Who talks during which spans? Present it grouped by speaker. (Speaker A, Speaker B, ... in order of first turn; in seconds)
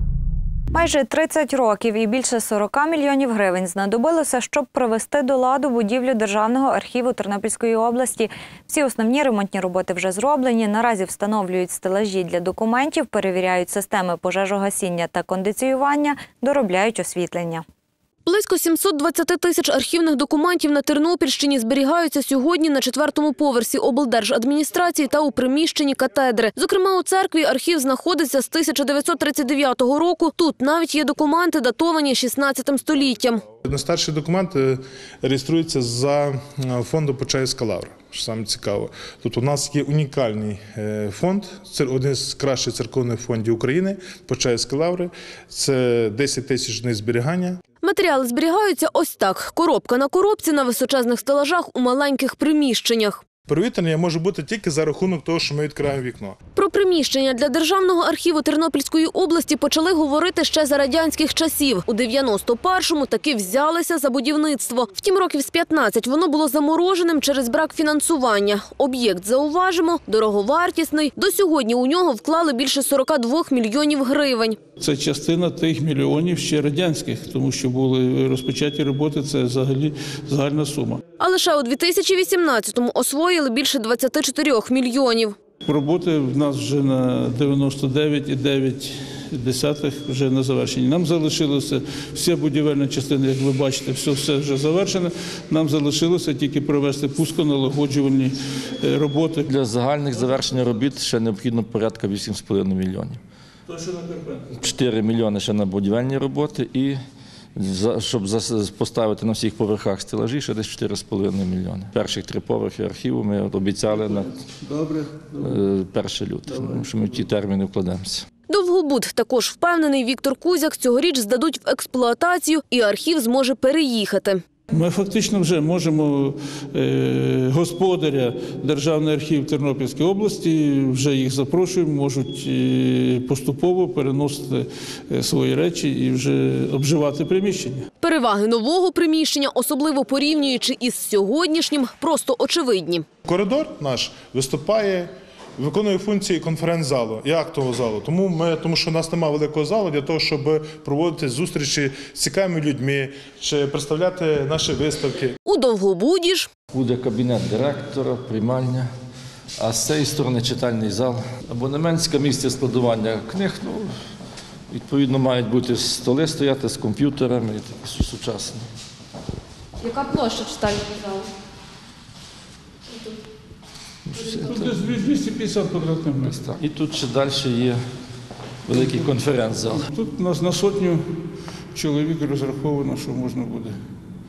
Speaker A: 0.7-17.6
Speaker B: 18.2-33.4, 47.8-53.2, 56.5-74.6, 81.2-85.3, 118.5-124.4, 138.0-143.0, 155.4-156.5, 169.8-171.3
Speaker C: 33.6-47.6, 53.5-56.4, 143.2-155.3
Speaker D: 74.8-81.0, 85.6-99.5, 103.7-104.5, 114.0-115.6, 116.5-116.8, 124.7-137.9, 174.4-176.4, 179.9-181.0, 181.7-183.7
Speaker E: 99.5-103.2, 104.5-107.0, 107.5-114.4, 115.4-118.3, 156.7-158.9, 159.6-163.9, 164.7-168.7, 174.1-174.8, 176.2-177.8, 178.7-179.8